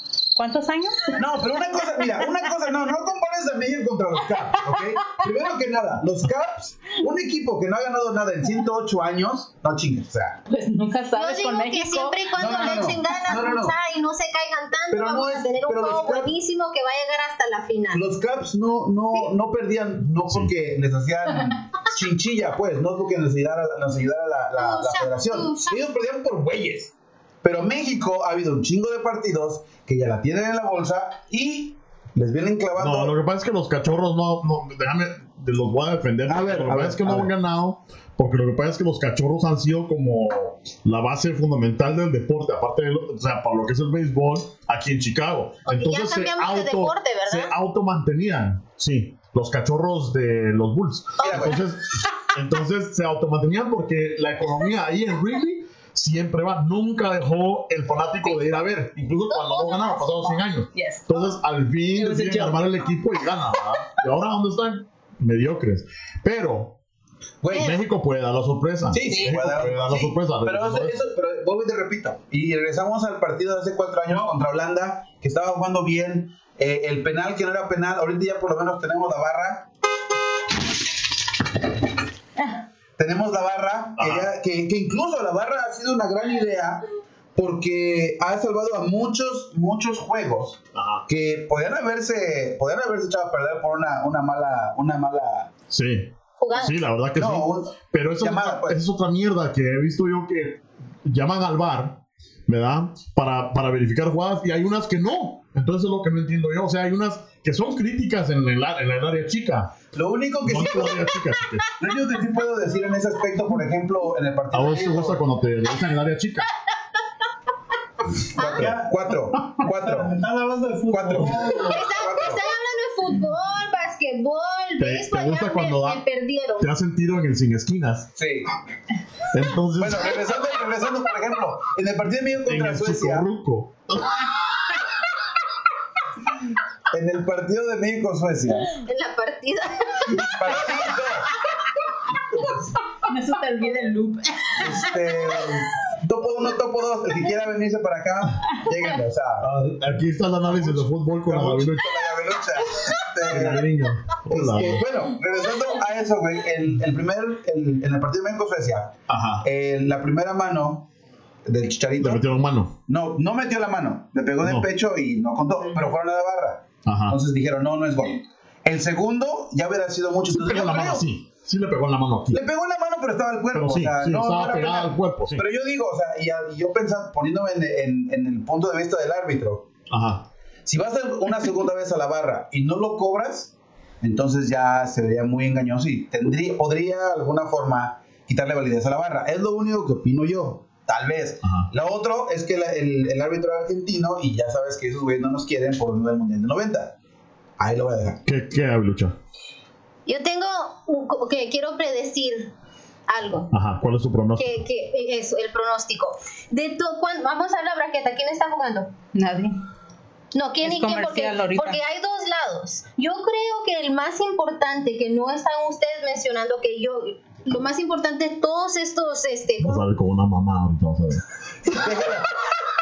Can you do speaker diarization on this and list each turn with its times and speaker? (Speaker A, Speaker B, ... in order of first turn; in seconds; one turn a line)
Speaker A: 0.3-1.2
Speaker B: 1.2-10.4
Speaker A: 10.5-12.8
Speaker C: 11.2-18.0
Speaker B: 12.3-13.8
Speaker B: 14.9-16.3
Speaker B: 17.9-33.1
Speaker C: 24.6-25.8
Speaker D: 32.8-66.8
Speaker B: 36.3-37.3
Speaker C: 45.7-47.5
Speaker C: 51.2-52.2
Speaker B: 51.2-51.6
Speaker C: 59.3-60.4
Speaker A: 60.8-61.3
Speaker A: 62.0-62.9
Speaker B: 67.4-67.8
Speaker C: 67.5-67.8
Speaker D: 67.5-71.0
Speaker B: 68.9-79.7
Speaker A: 69.0-69.4
Speaker E: 74.0-74.4
Speaker B: 83.0-86.8
Speaker D: 84.0-84.3
Speaker B: 87.4-95.5
Speaker D: 90.8-91.0
Speaker D: 95.7-109.7
Speaker C: 96.4-96.8
Speaker B: 97.2-98.8
Speaker B: 109.9-111.1
Speaker D: 110.4-111.7
Speaker B: 111.8-115.2
Speaker D: 114.5-116.5
Speaker B: 118.3-120.2
Speaker C: 118.4-118.7
Speaker E: 118.4-119.0
Speaker E: 119.6-121.9
Speaker B: 120.9-122.5
Speaker C: 121.6-126.7
Speaker D: 124.8-126.0
Speaker D: 126.6-128.1
Speaker B: 128.2-128.5
Speaker D: 129.3-130.2
Speaker B: 129.8-133.3
Speaker D: 132.4-134.4
Speaker B: 136.9-138.8
Speaker C: 138.8-140.8
Speaker B: 140.2-141.3
Speaker A: 143.0-144.9
Speaker B: 144.6-149.5
Speaker D: 149.4-151.9
Speaker B: 150.5-153.7
Speaker D: 153.3-154.9
Speaker B: 154.3-160.9
Speaker D: 159.1-159.4
Speaker B: 161.5-162.2
Speaker D: 162.0-162.8
Speaker B: 162.9-171.1
Speaker D: 164.4-164.7
Speaker D: 166.8-167.2
Speaker D: 170.3-172.4
Speaker B: 172.3-179.7
Speaker D: 173.5-175.4
Speaker D: 179.9-180.3
Speaker B: 180.7-196.9
Speaker D: 191.4-191.7
Speaker B: 197.6-198.2
Speaker D: 198.2-199.2
Speaker C: 200.1-202.5
Speaker C: 203.1-203.5
Speaker D: 203.5-204.6
Speaker C: 204.4-208.9
Speaker A: 209.1-209.6
Speaker C: 210.3-219.8
Speaker A: 210.6-211.8
Speaker D: 219.6-221.2
Speaker B: 221.7-222.3